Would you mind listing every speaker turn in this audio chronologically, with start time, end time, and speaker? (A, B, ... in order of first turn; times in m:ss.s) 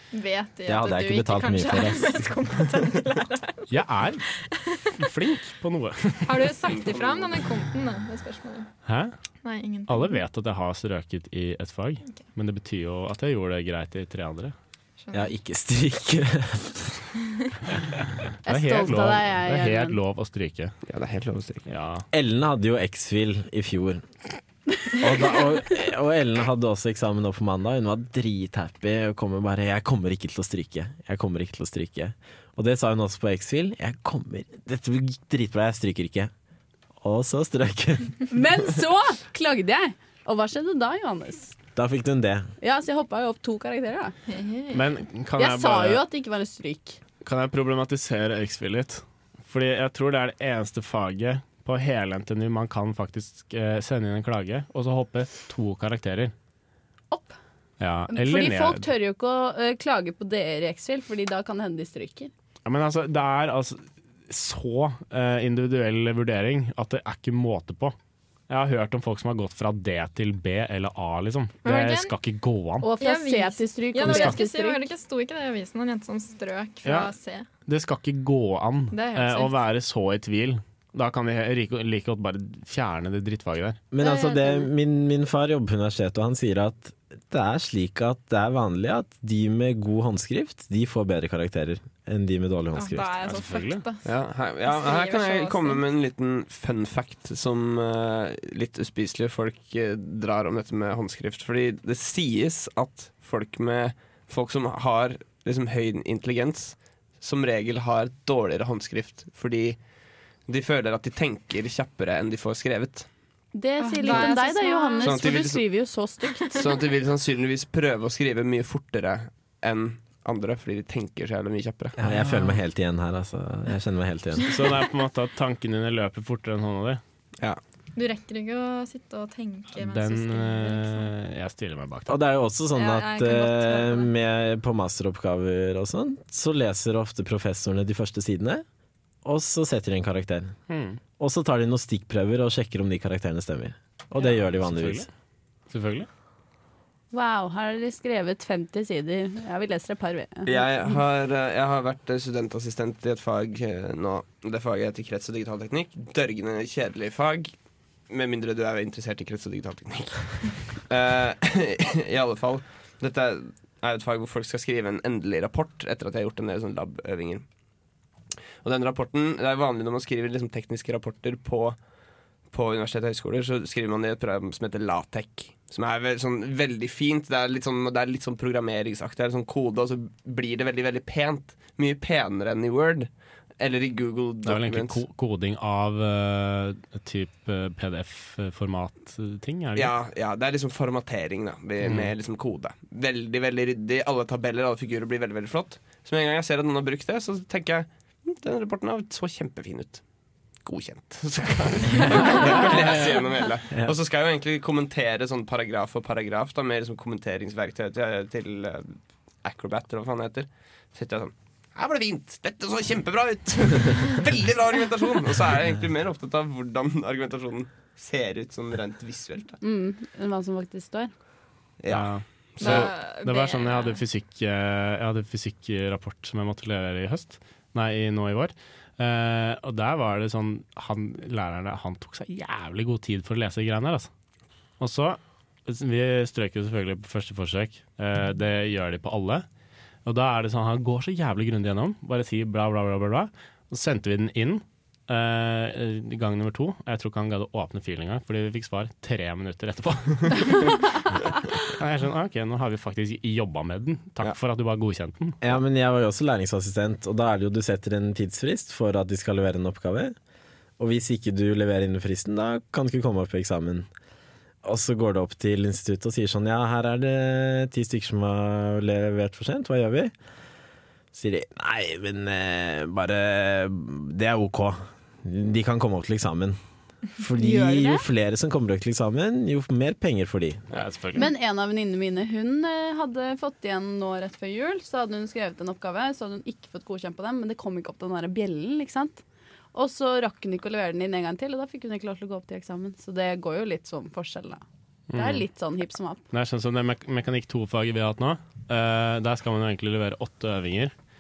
0:00.1-0:03.7 A
0:00.7-0:02.3 B
0:03.7-0:04.3 C
0:04.5-0:04.9 A
0:04.9-0:06.5 C
0:06.3-0:08.7 A
0:06.7-0:07.4 D
0:08.8-0:09.1 C
0:09.4-0:10.2 A
0:09.9-0:14.6 C
0:15.0-0:15.3 A
0:15.1-0:17.1 B
0:18.4-0:20.0 E
0:18.4-0:20.8 C
0:20.9-0:21.6 D
0:21.7-0:22.0 C
0:22.1-0:24.0 B
0:25.0-0:36.3 B
0:37.0-0:38.2 B
0:38.3-0:41.6 E
0:41.8-0:42.5 B
0:42.6-0:44.1 E
0:44.3-0:44.8 A
0:44.7-0:46.0 C
0:45.4-0:47.0 E
0:47.2-0:56.3 C
0:57.8-0:58.9 C
0:58.1-1:02.3 E
1:02.6-1:08.0 C
1:08.5-1:12.9 C
1:11.6-1:12.1 A
1:12.8-1:14.9 E
1:13.0-1:17.5 A
1:14.0-1:14.4 C
1:16.8-1:17.1 C
1:17.7-1:23.8 C
1:18.9-1:19.6 A
1:23.9-1:33.3 B
1:24.0-1:24.7 A
1:32.7-1:34.1 A
1:33.2-1:33.8 C
1:34.0-1:49.8 D
1:34.7-1:35.8 A
1:50.5-1:53.1 D
1:53.5-1:56.8 E
1:53.8-1:55.3 A
1:54.1-1:54.4 D
1:55.0-1:55.7 D
1:56.5-2:02.0 D
2:02.0-2:04.7 B
2:02.1-2:02.5 C
2:04.5-2:07.0 C
2:08.0-2:11.1 A
2:09.8-2:12.2 C
2:12.1-2:18.6 B
2:12.7-2:14.1 A
2:19.2-2:20.6 B
2:20.7-2:21.0 C
2:21.2-2:25.1 B
2:24.5-2:25.1 C
2:25.7-2:26.1 C
2:27.1-2:30.6 E
2:30.4-2:37.5 D
2:38.1-2:47.5 D
2:48.6-2:51.8 D
2:52.5-3:05.0 D
3:04.4-3:09.9 C
3:09.8-3:20.0 D
3:11.8-3:12.1 C
3:20.6-3:39.6 D
3:39.6-3:41.1 E
3:41.8-3:42.9 D
3:41.9-3:54.1 C
3:42.6-3:44.0 A
3:54.8-3:59.5 C
4:00.0-4:10.8 C
4:11.6-4:15.4 C
4:15.4-4:20.2 B
4:20.8-4:23.9 B
4:24.6-4:30.1 B
4:31.1-4:36.6 B
4:37.2-4:40.6 B
4:37.4-4:38.0 E
4:40.7-4:41.3 C
4:41.2-4:49.2 E
4:49.7-4:54.6 E
4:55.1-4:55.5 C
4:55.1-4:56.2 E
4:56.3-5:00.9 C